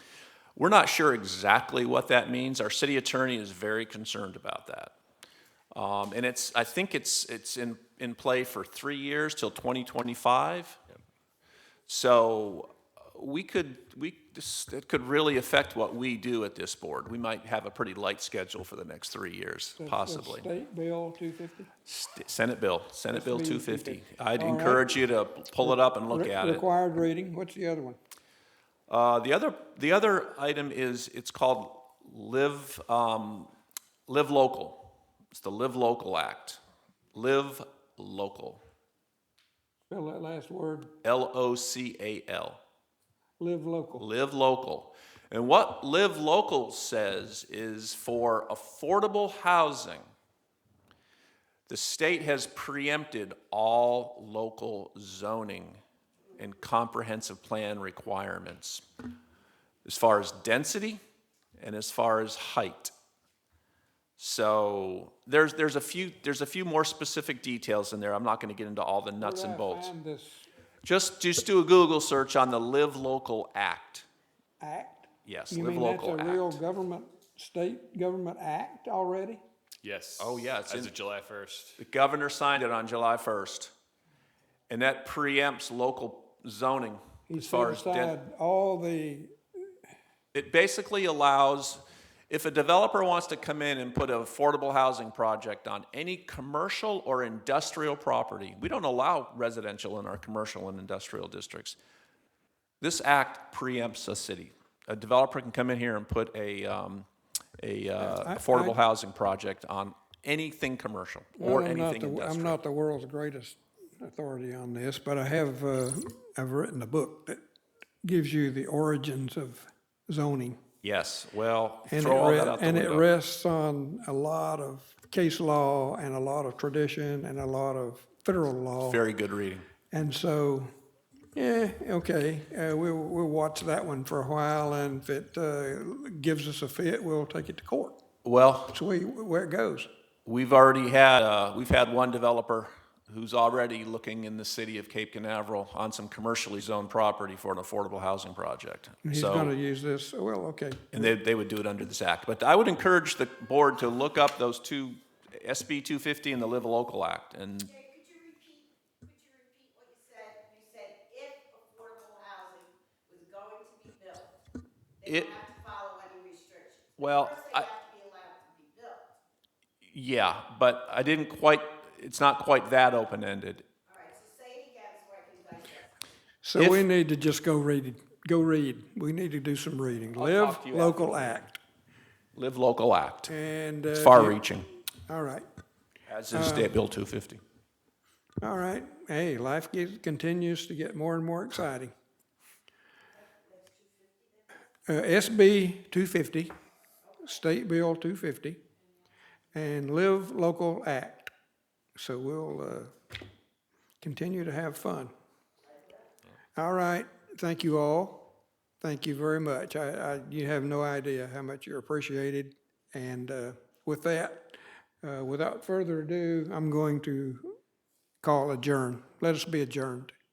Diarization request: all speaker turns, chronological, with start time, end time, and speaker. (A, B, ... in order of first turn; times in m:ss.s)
0:00.6-0:04.9 A
0:05.7-0:10.8 A
0:11.9-0:20.5 A
0:19.8-0:21.7 B
0:21.9-0:26.6 A
0:23.1-0:25.0 B
0:25.6-0:28.0 B
0:28.9-0:33.5 A
0:34.1-0:36.6 A
0:37.1-0:38.6 A
0:39.9-0:40.9 B
0:41.0-0:42.6 A
0:43.4-0:44.1 B
0:44.0-0:50.1 A
0:51.7-0:55.8 A
0:56.4-0:58.8 A
0:59.8-1:01.0 A
1:01.6-1:02.9 A
1:04.2-1:09.9 A
1:09.2-1:10.5 B
1:10.8-1:14.1 A
1:14.6-1:19.4 B
1:15.3-1:16.6 A
1:19.8-1:21.8 C
1:20.2-1:20.9 A
1:21.8-1:23.7 A
1:24.7-1:28.2 A
1:27.3-1:29.3 B
1:30.3-1:41.8 A
1:42.8-1:52.6 A
1:48.0-1:48.8 B
1:51.4-1:57.4 B
1:58.0-2:00.6 B
2:00.8-2:03.1 A
2:01.9-2:09.0 B
2:08.8-2:09.7 A
2:09.9-2:10.7 B
2:11.4-2:18.0 B
2:18.2-2:18.8 A
2:18.7-2:19.9 B
2:20.3-2:29.5 A
2:29.0-2:31.1 B
2:30.9-2:37.7 A
2:37.8-2:44.3 D
2:45.0-2:45.4 A
2:45.4-2:46.9 D
2:47.0-2:47.7 A
2:47.8-2:49.0 D
2:49.9-2:53.7 A
2:54.0-2:55.8 D
2:56.4-3:01.6 B
2:56.6-2:56.9 A
3:00.2-3:00.8 A
3:00.3-3:01.0 C
3:02.4-3:03.3 A
3:03.3-3:04.4 B
3:03.9-3:04.7 A
3:05.1-3:05.5 B
3:06.1-3:07.4 A
3:06.3-3:06.8 B
3:08.4-3:11.9 B
3:14.9-3:16.5 B
3:17.2-3:18.6 B
3:19.5-3:21.3 B
3:22.0-3:22.9 B
3:24.0-3:25.1 B
3:26.6-3:28.3 B
3:28.8-3:37.6 B
3:38.2-3:40.1 B